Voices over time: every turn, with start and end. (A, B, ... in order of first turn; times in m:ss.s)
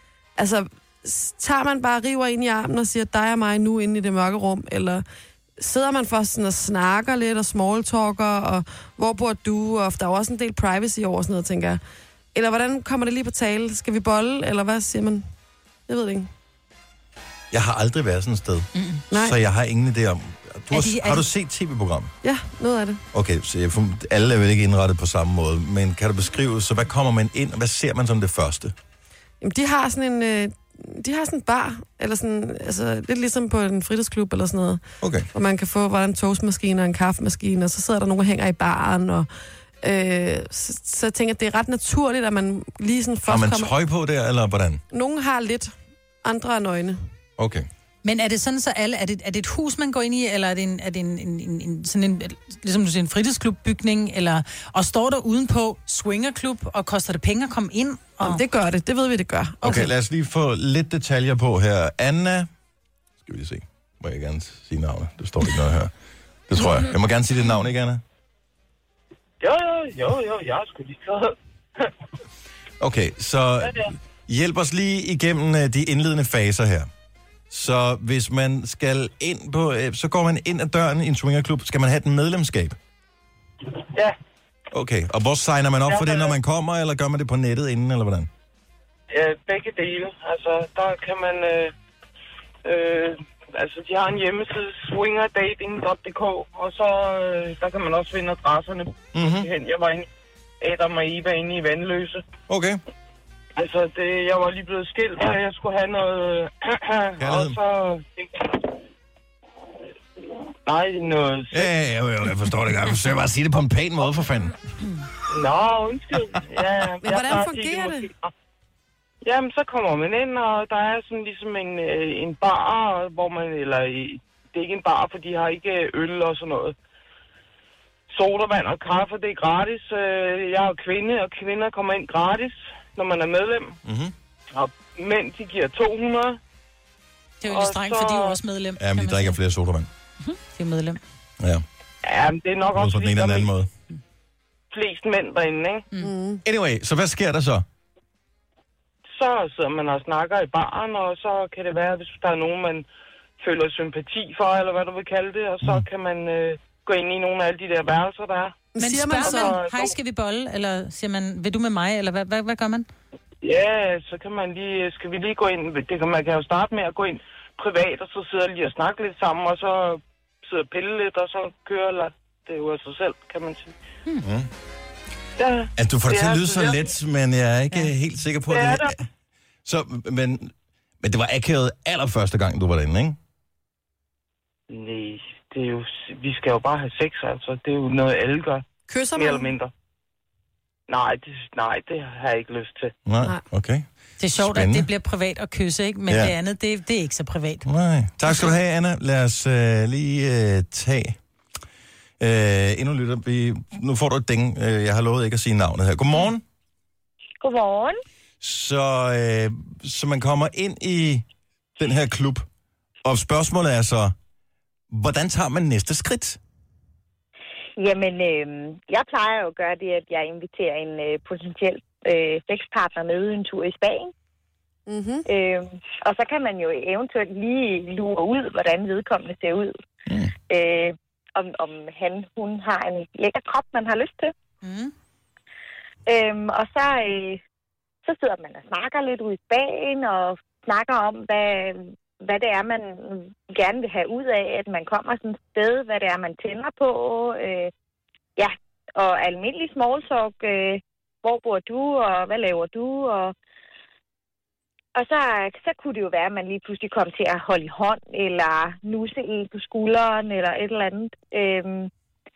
0:00.4-0:05.0 A
0:05.6-0:11.8 A
0:12.3-0:15.2 A
0:15.9-0:16.3 A
0:17.5-0:22.1 B
0:18.7-0:19.0 C
0:19.1-0:19.4 A
0:20.7-0:21.2 C
0:22.2-0:23.0 A
0:23.1-0:28.7 B
0:29.4-0:39.3 A
0:35.0-0:35.3 B
0:39.8-0:43.7 A
0:43.3-0:44.8 B
0:44.9-0:45.7 A
0:46.2-0:47.0 A
0:47.4-0:47.7 B
0:48.0-0:58.4 C
0:58.2-0:59.7 A
0:59.6-1:02.5 B
0:59.6-0:59.9 C
1:03.2-1:05.9 B
1:06.5-1:08.0 B
1:09.4-1:11.9 D
1:12.8-1:16.9 B
1:13.6-1:13.9 D
1:17.5-1:22.8 B
1:24.7-1:28.3 B
1:25.9-1:26.4 D
1:29.1-1:31.7 D
1:32.6-1:40.1 D
1:39.1-1:39.5 B
1:40.6-1:42.2 D
1:42.5-1:42.8 B
1:43.6-1:48.6 D
1:47.2-1:47.5 B
1:50.6-1:51.7 D
1:51.5-1:54.5 B
1:55.3-1:58.3 D
1:57.0-1:58.1 A
1:59.2-2:06.7 D
2:08.1-2:13.8 D
2:13.8-2:14.1 B
2:14.5-2:16.4 D
2:17.4-2:19.4 C
2:17.4-2:18.4 D
2:18.8-2:19.9 B
2:20.5-2:21.0 C
2:21.4-2:21.6 B
2:22.0-2:23.5 D
2:22.8-2:23.7 B
2:24.7-2:25.9 D
2:26.0-2:26.4 A
2:26.4-2:27.6 B
2:29.1-2:32.8 D
2:33.4-2:38.6 D
2:38.7-2:39.6 A
2:38.8-2:42.9 C
2:39.2-2:39.9 D
2:43.4-2:53.7 D
2:54.2-2:54.5 B
2:55.4-2:56.8 D
2:55.8-2:59.1 B
2:58.5-2:58.9 D
2:59.6-3:03.2 B
3:04.7-3:09.7 D
3:08.9-3:09.5 A
3:10.9-3:12.9 D
3:13.0-3:14.9 B
3:14.2-3:17.6 C
3:16.1-3:16.3 B
3:17.6-3:21.2 B
3:22.2-3:26.4 B
3:27.4-3:28.0 E
3:28.4-3:31.2 B
3:31.8-3:32.4 B
3:33.0-3:34.1 B
3:34.9-3:36.4 B
3:37.8-3:44.1 E
3:44.9-3:45.2 A
3:45.2-3:49.7 E
3:50.1-3:50.3 B
3:50.5-3:54.3 E
3:54.6-3:54.9 C
3:56.0-3:57.4 E
3:58.0-4:07.7 E
4:08.4-4:13.3 E
4:14.9-4:21.9 E